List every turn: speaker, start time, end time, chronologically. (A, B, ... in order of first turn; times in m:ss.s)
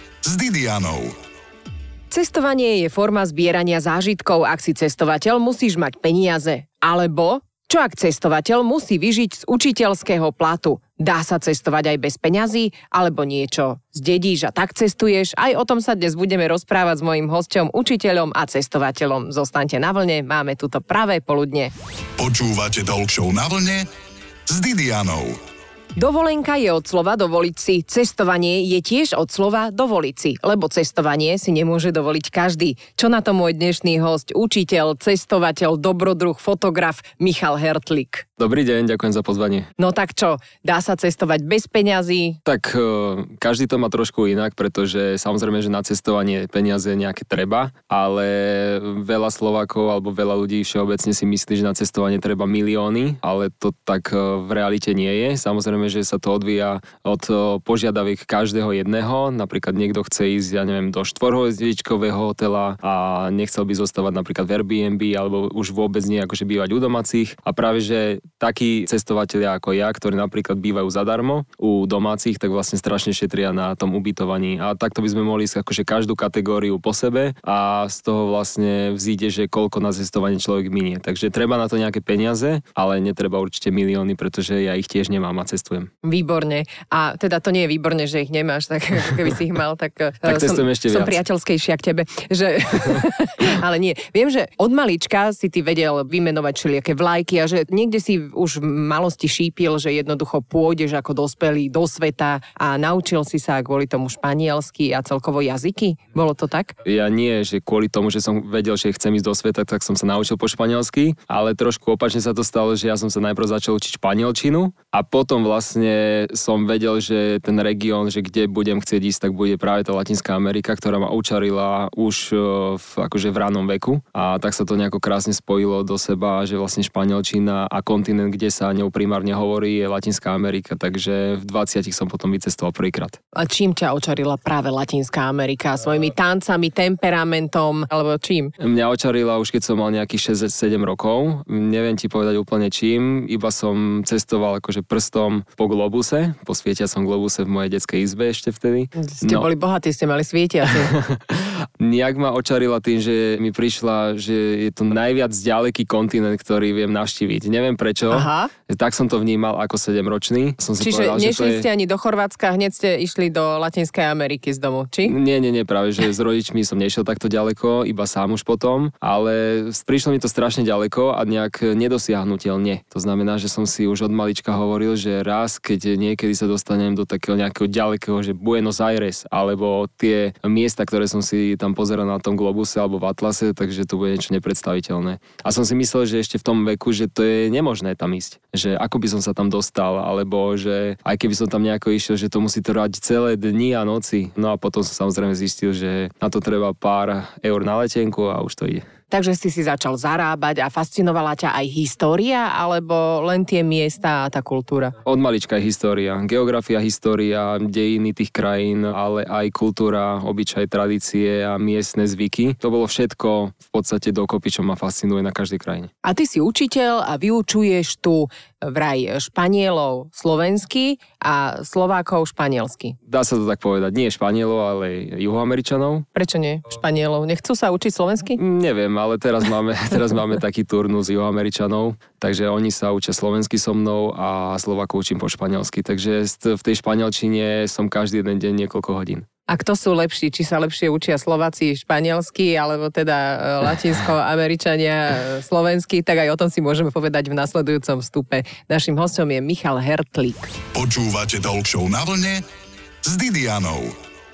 0:00.2-0:01.2 A
0:02.1-0:21.7 B
0:22.2-0:23.9 A
0:24.5-0:25.4 A
0:26.0-0:38.2 B
0:38.4-0:39.7 C
0:39.8-0:42.4 B
0:42.5-1:25.9 C
1:26.0-1:46.8 B
1:30.2-1:31.2 C
1:46.8-2:13.2 C
2:13.3-2:18.5 B
2:18.6-2:29.5 C
2:29.0-2:31.0 B
2:30.6-2:41.7 C
2:38.1-2:38.5 B
2:40.8-2:45.2 B
2:45.0-3:18.8 C
3:19.1-3:25.0 B
3:25.0-3:35.9 C
3:36.0-3:43.0 B
3:43.1-3:46.0 C
3:46.1-3:48.4 B
3:48.4-3:59.3 C
3:59.5-4:10.5 B
4:10.7-4:12.4 A
4:13.0-4:14.0 A